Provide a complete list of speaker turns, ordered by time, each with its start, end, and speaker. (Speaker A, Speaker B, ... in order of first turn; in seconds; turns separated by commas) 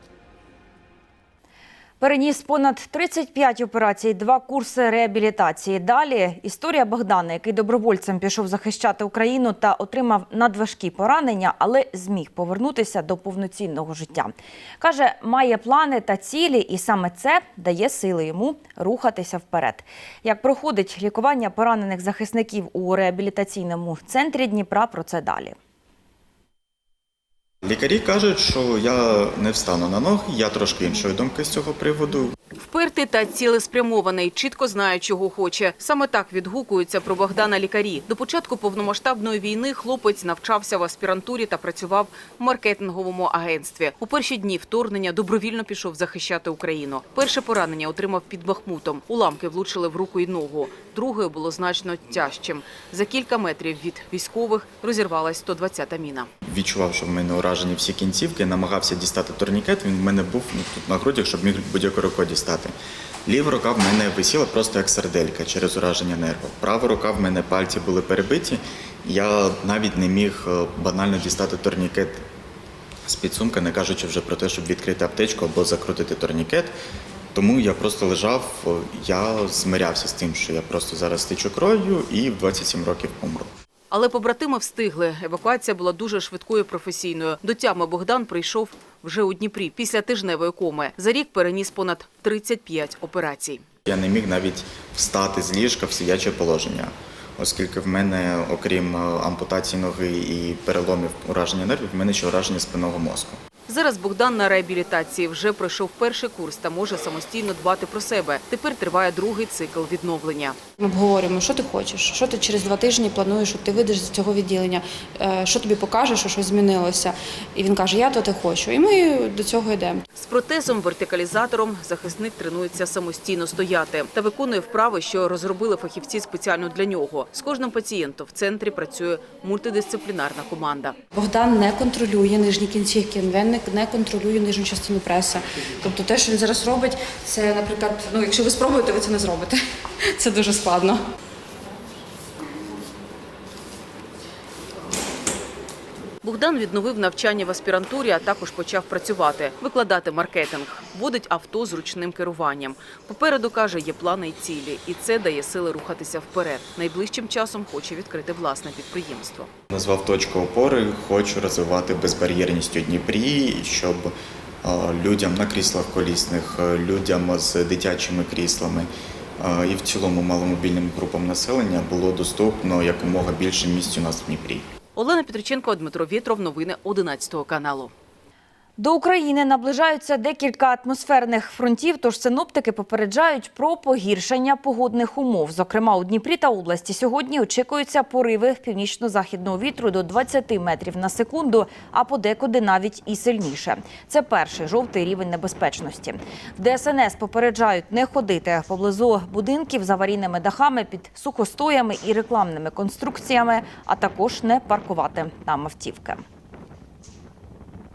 Speaker A: 2.0-25.5, Speaker B: 27.6-32.3, Speaker C: 32.6-56.3, Speaker B: 56.5-62.7, Speaker B: 63.2-72.2, Speaker B: 73.0-76.7, Speaker B: 77.3-83.5, Speaker C: 83.9-93.6, Speaker B: 93.8-103.4, Speaker C: 103.7-110.5, Speaker D: 110.8-120.0, Speaker C: 120.2-130.9, Speaker D: 131.1-139.6, Speaker D: 140.2-141.0, Speaker C: 146.2-159.5, Speaker B: 159.7-174.7, Speaker C: 174.9-177.9, Speaker A: 178.8-206.2